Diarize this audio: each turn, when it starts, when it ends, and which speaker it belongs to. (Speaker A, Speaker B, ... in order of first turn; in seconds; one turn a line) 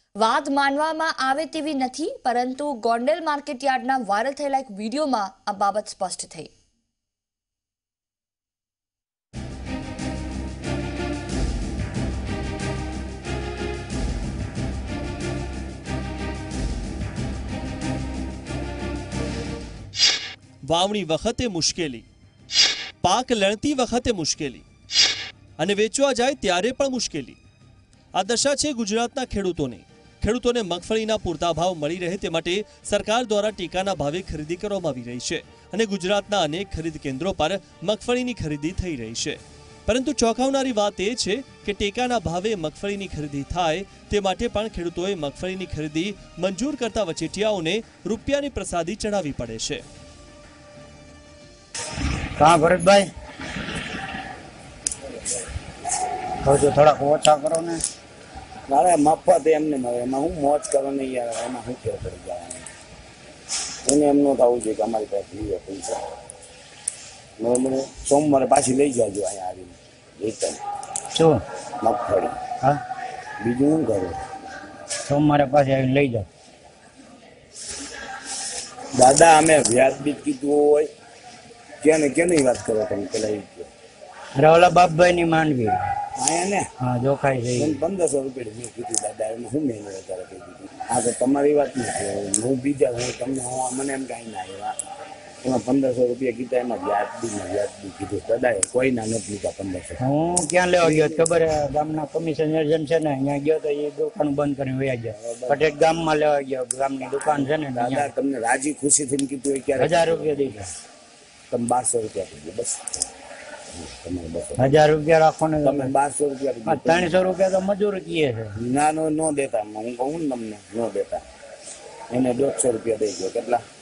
Speaker A: 0.2-6.5
Speaker B: 20.7-22.1
Speaker B: 23.0-24.6
Speaker B: 25.6-27.4
Speaker B: 28.1-49.8
Speaker C: 52.4-53.1
Speaker C: 56.4-57.8
Speaker D: 58.7-62.7
Speaker D: 63.9-66.0
Speaker D: 67.4-70.6
Speaker C: 71.1-71.4
Speaker D: 71.8-72.4
Speaker D: 73.4-74.2
Speaker C: 75.1-76.3
Speaker D: 79.0-80.9
Speaker D: 81.8-83.7
Speaker C: 84.3-85.8
Speaker D: 86.2-86.7
Speaker C: 86.8-87.8
Speaker D: 87.6-94.7
Speaker D: 95.4-100.0
Speaker C: 100.0-108.1
Speaker D: 100.8-101.2
Speaker D: 105.2-105.6
Speaker D: 107.8-110.6
Speaker C: 109.8-110.7
Speaker D: 111.5-113.0
Speaker D: 113.7-114.7
Speaker C: 114.6-115.9
Speaker D: 115.6-117.2
Speaker C: 116.7-118.5
Speaker D: 118.6-121.2
Speaker D: 122.1-123.6